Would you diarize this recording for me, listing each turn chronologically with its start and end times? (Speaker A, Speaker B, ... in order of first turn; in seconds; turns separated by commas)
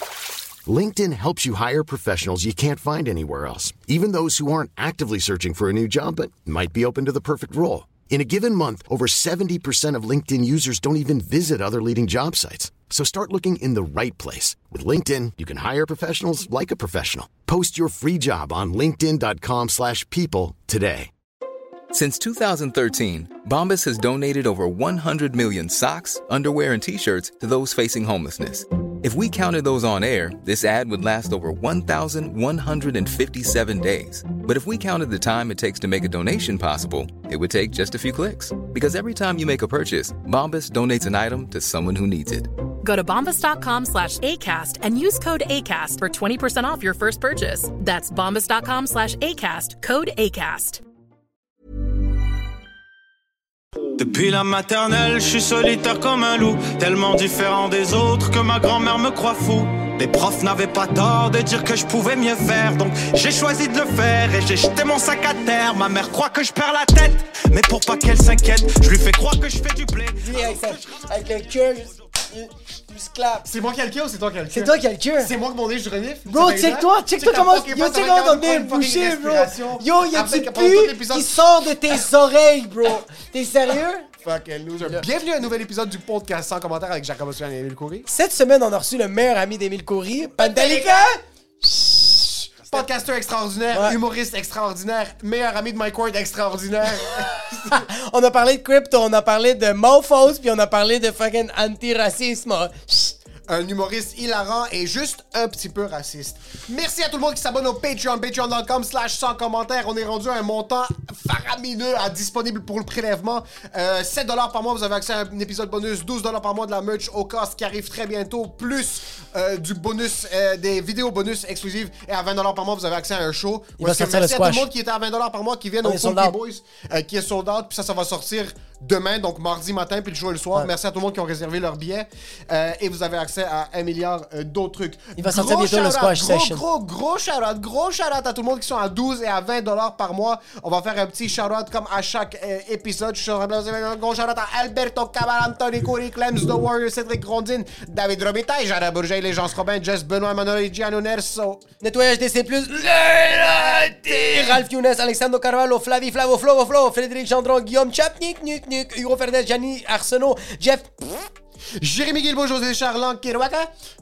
Speaker A: 0.7-21.1, Speaker B: 21.9-42.5, Speaker C: 42.8-50.8, Speaker D: 54.0-70.8, Speaker E: 70.2-73.5, Speaker F: 73.5-81.5, Speaker E: 74.5-75.3, Speaker E: 76.3-84.1, Speaker F: 84.2-88.1, Speaker E: 88.1-92.8, Speaker F: 90.3-91.1, Speaker F: 92.6-97.9, Speaker E: 93.7-94.0, Speaker E: 97.5-103.2, Speaker F: 103.5-151.6, Speaker E: 123.8-124.7, Speaker E: 125.8-126.4, Speaker E: 135.2-136.6, Speaker E: 151.8-161.3, Speaker F: 161.8-163.7